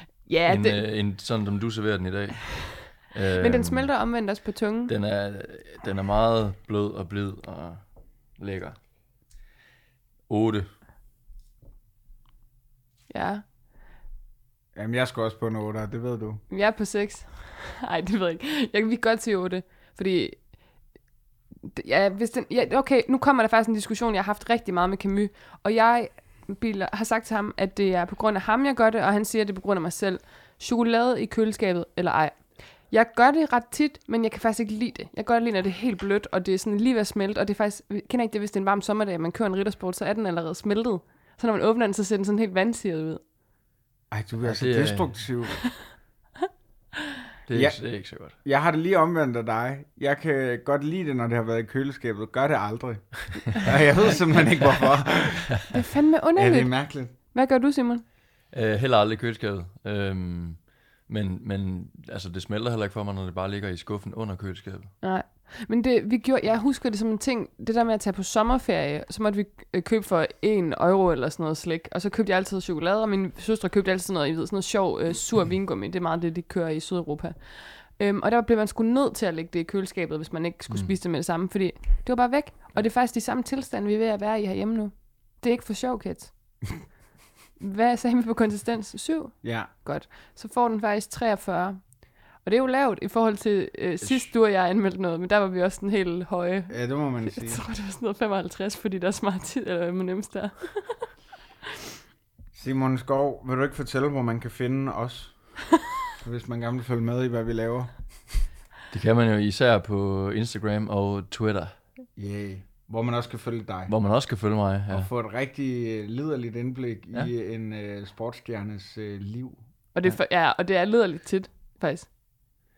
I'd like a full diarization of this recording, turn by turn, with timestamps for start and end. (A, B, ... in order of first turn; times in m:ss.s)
0:00.2-0:00.8 A
0:00.5-0:03.9 B
0:03.4-0:04.9 A
0:04.9-0:07.8 B
0:08.4-0:08.8 B
0:10.3-0:10.7 B
0:13.1-0:13.4 A
0:14.7-0:16.4 C
0:16.5-0:20.4 A
0:21.7-0:43.2 A
0:44.1-0:45.6 C
0:44.4-0:45.2 B
0:47.4-0:48.3 B
0:47.5-0:55.7 C
0:55.7-0:58.0 A
0:56.3-0:57.1 C
0:58.5-1:04.9 B
1:05.0-1:26.3 A
1:27.6-1:41.1 A
1:29.4-1:29.7 C
1:34.0-1:34.3 B
1:36.7-1:37.6 C
1:42.5-1:45.4 C
1:46.2-1:48.4 C
1:48.9-1:51.7 B
1:52.2-1:53.9 C
1:53.9-1:55.1 B
1:54.9-1:59.6 C
1:59.9-2:02.1 A